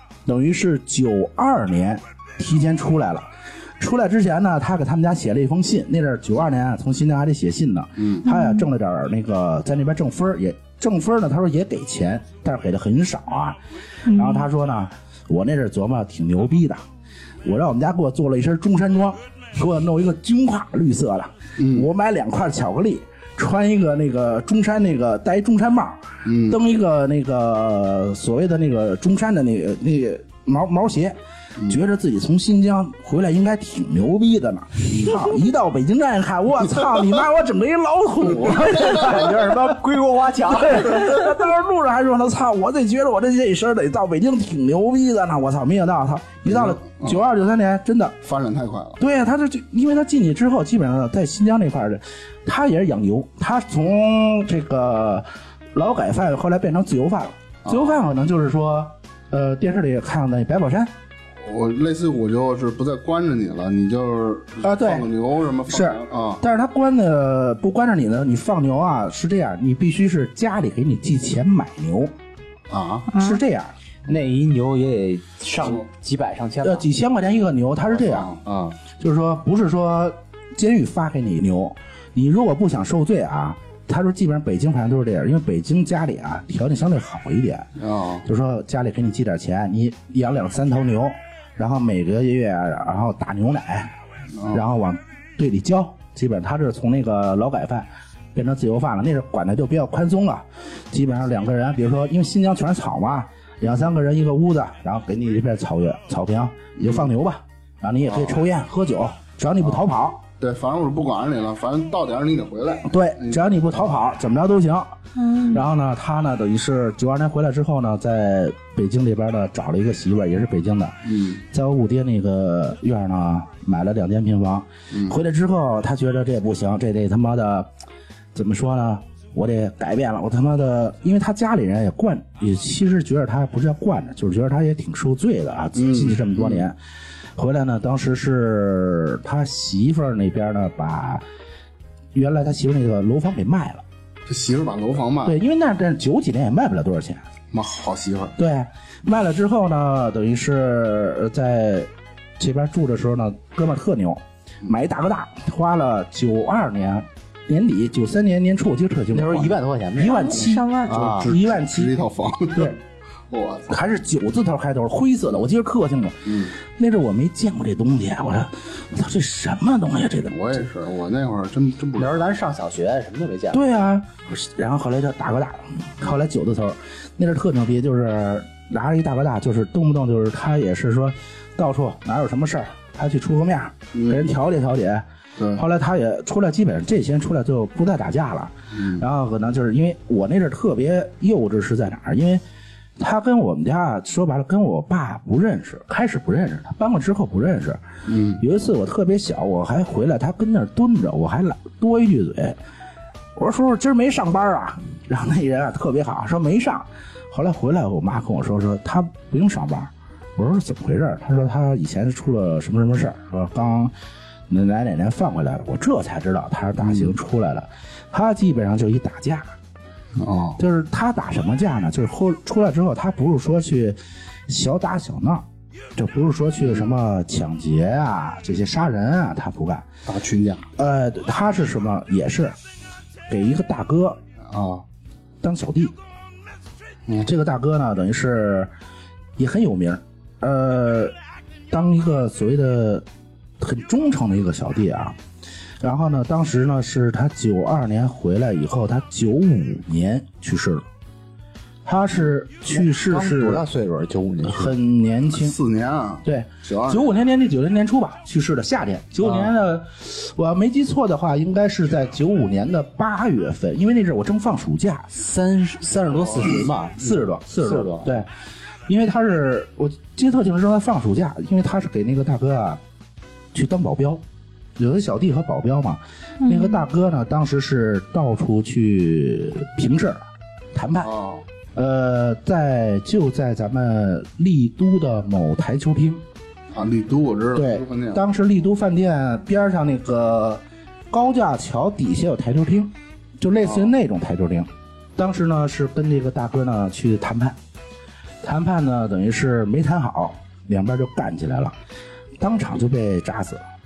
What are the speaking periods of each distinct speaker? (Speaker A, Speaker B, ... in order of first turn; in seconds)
Speaker A: 0.3-16.8, 17.4-39.8, 40.5-48.2, 49.0-60.9, 64.6-65.1, 65.7-72.1, 73.1-73.7, 76.6-78.3, 79.0-93.9, 94.5-110.2, 112.9-115.0, 115.5-127.7, 128.3-136.8, 137.4-141.2, 142.2-143.8, 145.2-147.2, 148.4-162.0, 163.7-170.5, 173.5-192.4, 193.0-197.8, 198.4-202.6, 203.4-213.9, 214.5-219.5, 220.6-229.9, 230.8-232.6, 233.3-234.2, 235.4-236.0, 237.2-238.7, 239.4-241.2, 241.7-243.1, 243.6-245.2, 245.8-250.8, 251.8-253.6, 254.4-255.6, 256.2-265.1, 267.0-268.3, 268.9-272.8, 273.5-274.2, 274.8-281.1, 281.8-286.2, 287.5-297.6, 298.4-301.7, 302.4-303.6
Speaker B: 8.2-8.6, 14.1-14.5, 73.1-73.4, 115.2-115.6, 160.1-161.0, 276.4-276.8
Speaker C: 21.6-21.9, 26.2-26.6, 46.5-47.2, 48.2-49.0, 57.7-58.0, 61.4-66.4, 72.7-73.1, 78.0-78.8, 87.8-88.2, 94.3-94.6, 106.8-107.0, 108.1-108.4, 110.4-113.4, 121.1-121.4, 135.8-136.6, 144.3-145.4, 147.5-148.4, 160.8-162.8, 163.3-163.8, 166.3-166.5, 170.3-172.3, 183.9-184.2, 185.4-185.6, 188.8-189.0, 198.1-198.4, 216.8-217.1, 220.2-220.6, 230.1-230.7, 234.5-234.8, 255.4-257.1, 281.0-281.4, 286.7-288.2
Speaker D: 38.6-41.1, 74.1-76.9, 159.1-161.3, 172.0-173.6, 252.7-254.8, 259.2-259.5, 265.1-268.2